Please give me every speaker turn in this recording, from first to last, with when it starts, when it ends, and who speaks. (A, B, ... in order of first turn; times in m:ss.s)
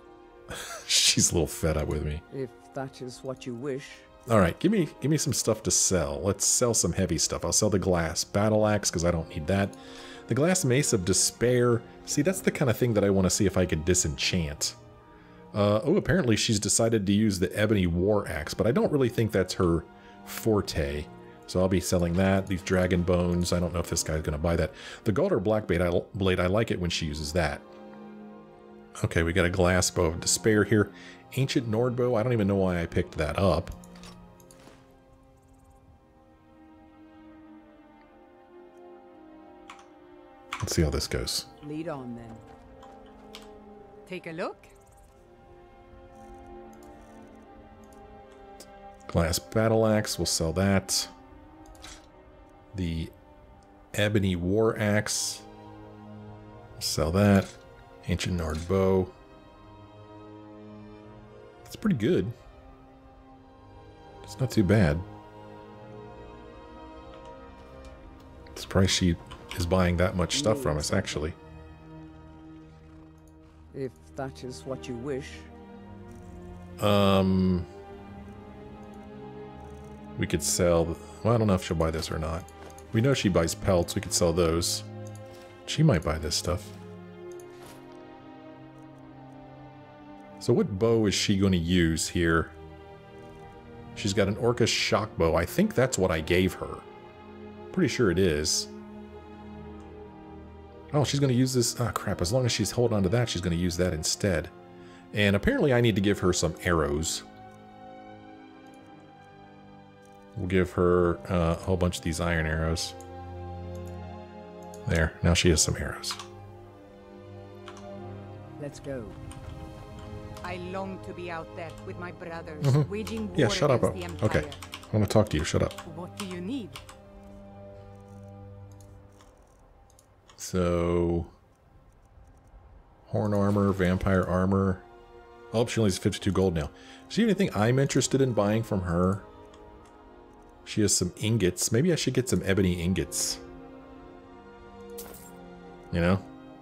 0:00.5-0:02.2 A
0:02.3-0:04.1 B
0:04.3-0:14.8 A
0:15.5-0:27.6 A
0:29.0-0:33.8 A
0:40.6-0:41.5 A
0:41.6-0:42.4 B
0:44.0-0:44.7 C
0:49.1-0:51.1 A
0:52.7-0:53.1 A
0:53.9-0:55.4 A
0:56.8-0:59.1 A
1:01.6-1:02.3 A
1:04.2-1:05.0 A
1:08.5-1:11.3 A
1:10.3-1:11.2 B
1:13.7-1:15.5 B
1:16.8-1:17.7 A
1:20.2-1:24.9 A
1:25.6-1:26.7 A
1:30.4-1:32.5 A
1:34.0-1:36.8 A
1:37.7-1:38.7 A
1:40.9-1:44.5 A
1:45.1-1:47.2 A
1:50.4-1:53.0 A
1:54.8-1:56.2 A
1:58.6-1:59.2 B
2:00.4-2:04.6 C
2:02.6-2:05.8 A
2:05.8-2:06.8 C
2:10.4-2:11.3 A
2:13.1-2:14.8 A
2:15.5-2:19.2 A
2:20.6-2:23.4 A
2:25.9-2:26.2 A